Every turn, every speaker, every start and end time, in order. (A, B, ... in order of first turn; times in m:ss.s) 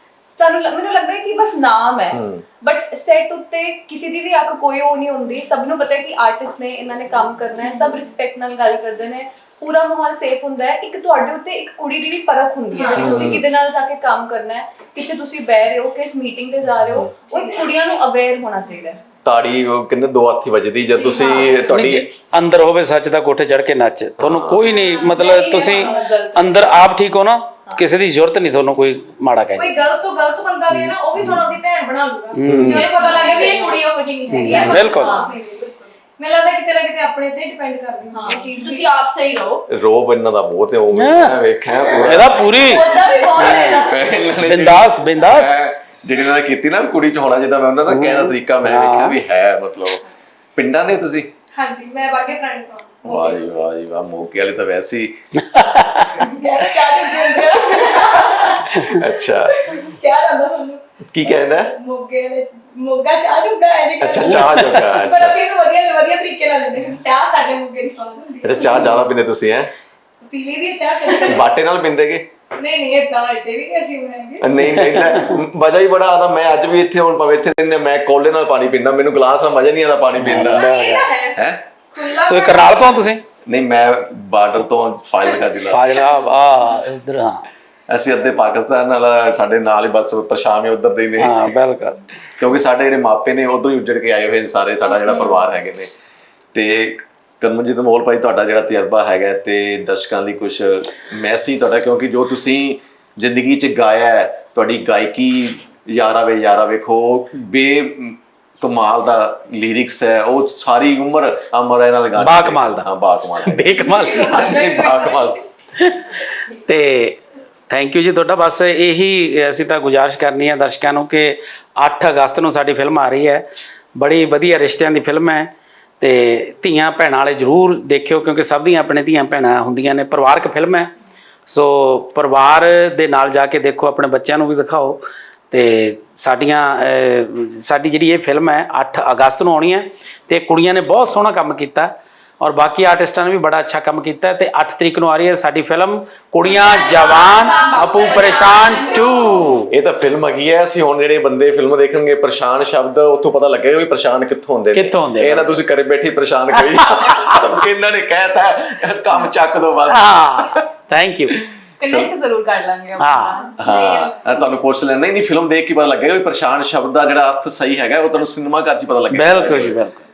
0:00.4-0:19.0 A
0:02.1-0:02.4 B
0:12.7-0:13.4 C
0:13.0-0:13.4 B
0:16.8-0:17.1 B
0:19.2-0:22.1 B
0:21.0-0:21.6 C
0:21.1-0:21.5 A
0:21.2-0:21.5 D
0:21.6-0:29.7 E
0:24.2-0:24.7 B
0:24.6-0:26.8 A
0:25.4-0:26.1 C
0:29.6-0:38.9 C
0:32.4-0:32.9 E
0:32.5-0:32.8 B
0:32.7-0:33.8 A
0:32.7-0:35.3 D
0:34.3-0:35.2 E
0:34.6-0:35.2 A
0:38.2-0:38.5 A
0:38.2-0:39.7 D
0:39.7-0:42.8 B
0:40.9-0:41.4 E
0:42.0-0:43.8 E
0:42.3-0:44.3 D
0:43.0-0:43.6 C
0:43.8-0:50.0 B
0:44.4-0:45.8 E
0:47.9-0:49.2 E
0:50.6-0:51.3 B
0:51.5-0:53.5 C
0:53.0-0:55.2 B
0:55.4-0:56.3 E
0:56.1-1:09.0 C
0:58.4-0:59.6 B
0:58.7-0:59.0 E
1:01.1-1:01.7 B
1:04.0-1:05.4 B
1:04.3-1:04.9 E
1:08.4-1:09.7 B
1:10.2-1:11.5 C
1:11.2-1:12.3 B
1:12.6-1:14.6 C
1:14.4-1:20.7 B
1:14.8-1:15.3 E
1:20.2-1:21.1 E
1:20.3-1:21.4 C
1:21.4-1:21.6 B
1:21.9-1:23.1 C
1:22.3-1:23.2 E
1:23.5-1:26.0 B
1:25.6-1:27.5 E
1:27.9-1:31.5 B
1:31.2-1:32.0 E
1:32.4-1:35.9 B
1:36.5-1:55.4 B
1:52.2-1:52.9 E
1:53.4-1:54.6 E
1:53.9-1:55.4 C
1:55.8-2:10.9 E
2:11.5-2:29.7 E
2:26.4-2:29.5 C
2:27.1-2:29.0 D
2:27.3-2:29.1 A
2:29.7-2:40.6 B
2:34.7-2:35.6 E
2:36.6-2:37.5 E
2:39.9-2:41.4 E
2:41.3-2:42.1 B
2:41.8-2:44.4 A
2:43.0-2:43.4 E
2:43.6-2:49.8 B
2:49.1-2:50.0 E